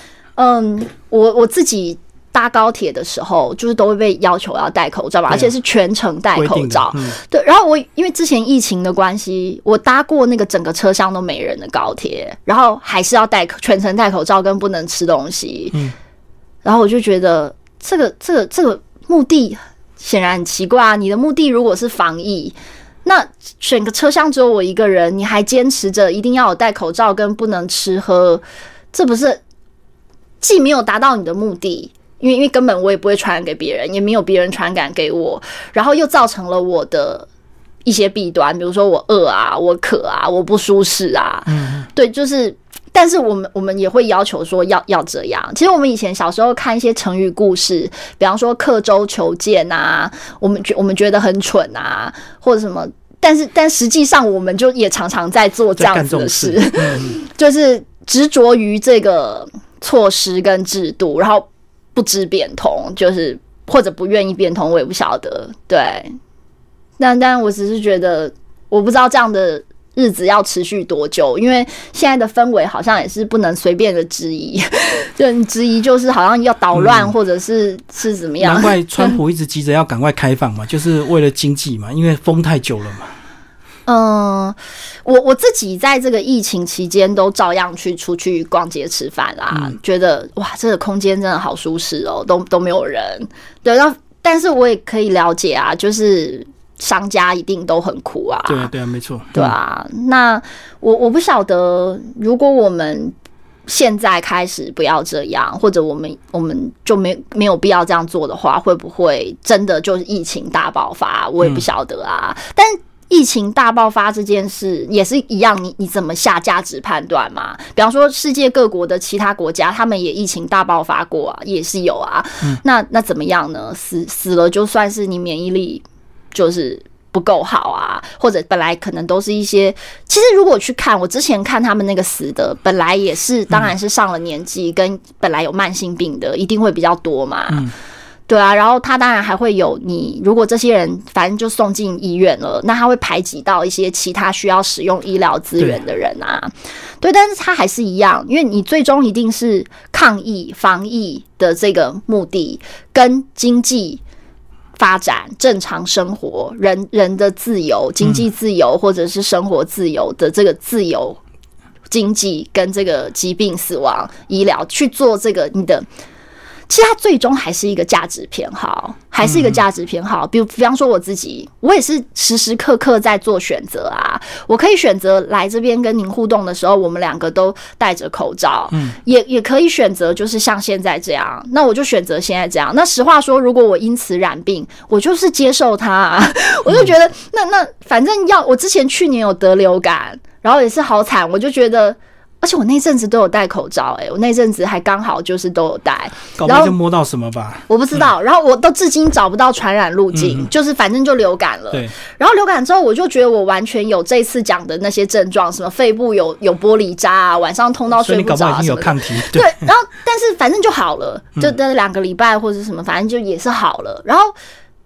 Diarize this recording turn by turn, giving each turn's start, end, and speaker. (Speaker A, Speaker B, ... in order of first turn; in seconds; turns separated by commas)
Speaker A: 0.4-15.8, Speaker B: 6.3-7.2, Speaker A: 16.6-22.5, Speaker A: 23.1-28.4, Speaker A: 28.9-29.4, Speaker A: 30.4-37.3, Speaker A: 37.9-66.2, Speaker B: 41.5-41.9, Speaker B: 55.8-57.2, Speaker A: 67.0-79.2, Speaker B: 76.8-77.1, Speaker B: 78.4-83.1, Speaker A: 83.9-98.7, Speaker B: 98.5-99.5, Speaker A: 99.3-103.1, Speaker A: 103.7-137.7, Speaker A: 138.3-154.0, Speaker A: 154.8-161.2, Speaker A: 161.9-165.9, Speaker A: 166.7-196.8, Speaker B: 169.2-169.6, Speaker B: 196.4-198.0, Speaker A: 197.7-214.3, Speaker B: 200.1-200.5, Speaker B: 208.0-209.6